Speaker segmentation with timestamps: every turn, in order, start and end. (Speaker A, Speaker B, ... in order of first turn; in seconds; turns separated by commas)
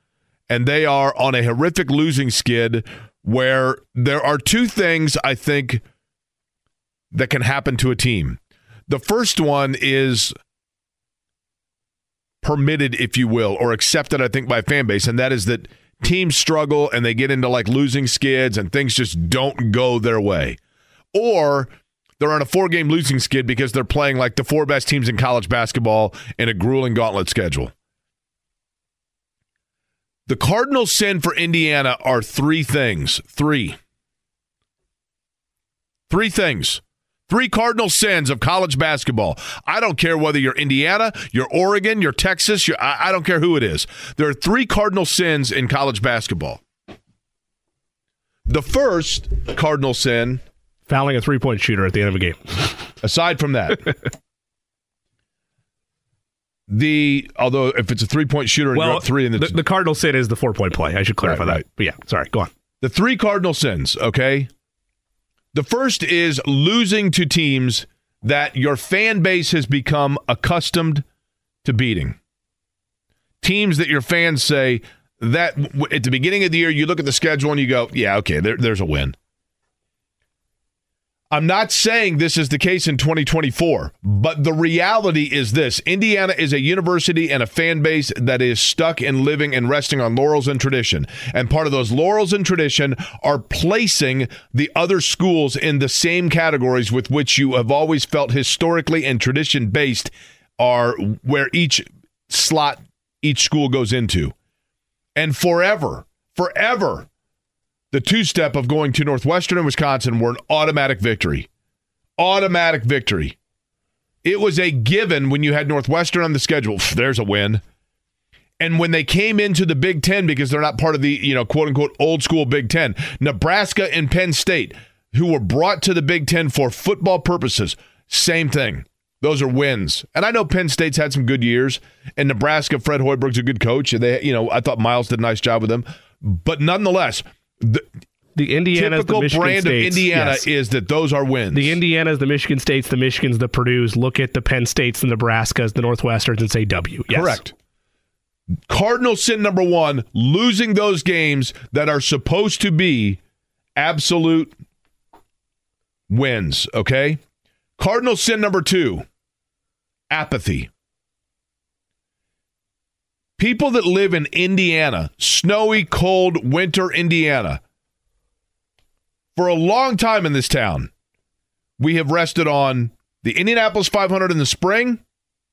Speaker A: 0.5-5.8, Speaker A: 7.1-10.3, Speaker A: 12.4-20.6, Speaker A: 21.1-27.7, Speaker A: 30.3-33.8, Speaker A: 36.1-46.6, Speaker A: 48.5-50.4, Speaker B: 50.9-52.5, Speaker A: 53.0-54.0, Speaker A: 56.7-59.6, Speaker B: 58.8-62.5, Speaker A: 61.2-61.6, Speaker A: 62.8-64.5, Speaker A: 65.5-71.0, Speaker A: 71.6-72.2, Speaker A: 73.4-79.2, Speaker A: 81.3-104.3, Speaker A: 105.2-107.1, Speaker A: 107.9-111.5, Speaker A: 112.2-113.4, Speaker A: 114.2-117.6, Speaker A: 118.6-137.8, Speaker B: 138.4-140.5, Speaker A: 138.8-141.8, Speaker B: 141.5-147.4, Speaker A: 147.1-147.5, Speaker A: 148.7-153.2, Speaker A: 153.8-154.5, Speaker A: 156.1-157.2, Speaker A: 157.8-159.1, Speaker A: 160.1-160.7, Speaker A: 163.4-167.6, Speaker A: 169.4-170.9, Speaker A: 171.8-175.0